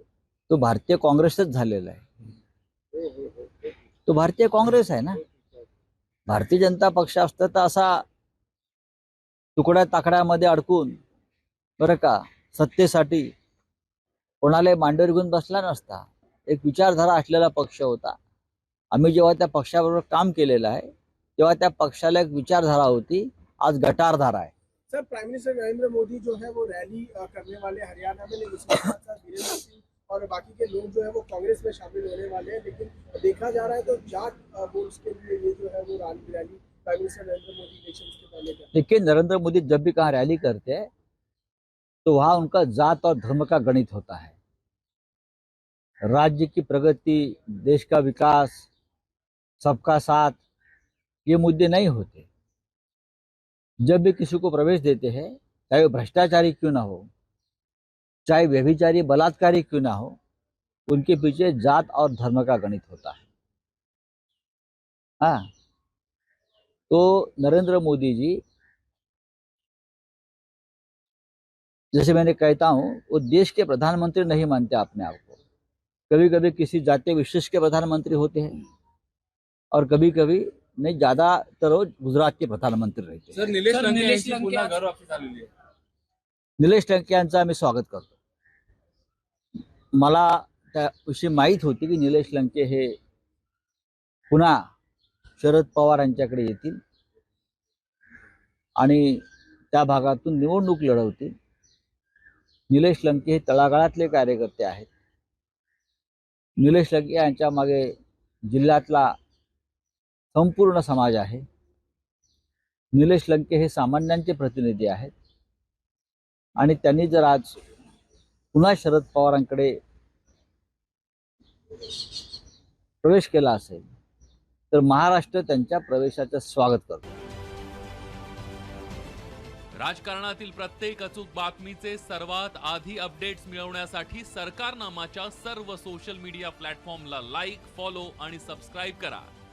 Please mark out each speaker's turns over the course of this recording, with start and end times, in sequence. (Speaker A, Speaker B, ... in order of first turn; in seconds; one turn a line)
Speaker A: 0.5-2.0
Speaker B: 2.9-3.5
Speaker A: 4.0-5.2
Speaker A: 6.3-8.0
Speaker A: 9.6-10.9
Speaker A: 11.8-13.3
Speaker A: 14.4-18.1
Speaker A: 18.9-24.5
Speaker B: 24.9-38.7
Speaker A: 38.7-40.9
Speaker A: 42.0-44.3
Speaker A: 46.1-48.7
Speaker A: 49.6-50.4
Speaker A: 51.2-52.3
Speaker A: 53.9-57.1
Speaker A: 58.3-60.1
Speaker A: 60.9-63.2
Speaker A: 65.2-65.5
Speaker A: 66.9-68.4
Speaker A: 71.9-75.4
Speaker A: 76.1-78.6
Speaker A: 79.7-83.6
Speaker C: 83.3-85.5
Speaker A: 86.6-88.2
Speaker A: 90.0-92.9
Speaker A: 94.3-94.6
Speaker A: 95.4-96.8
Speaker A: 98.8-101.3
Speaker A: 102.7-104.9
Speaker A: 106.6-107.9
Speaker A: 108.5-109.1
Speaker A: 110.3-111.4
Speaker A: 112.9-115.1
Speaker A: 116.6-117.6
Speaker A: 118.5-119.7
Speaker A: 123.0-123.8
Speaker A: 124.7-127.1
Speaker D: 129.7-139.3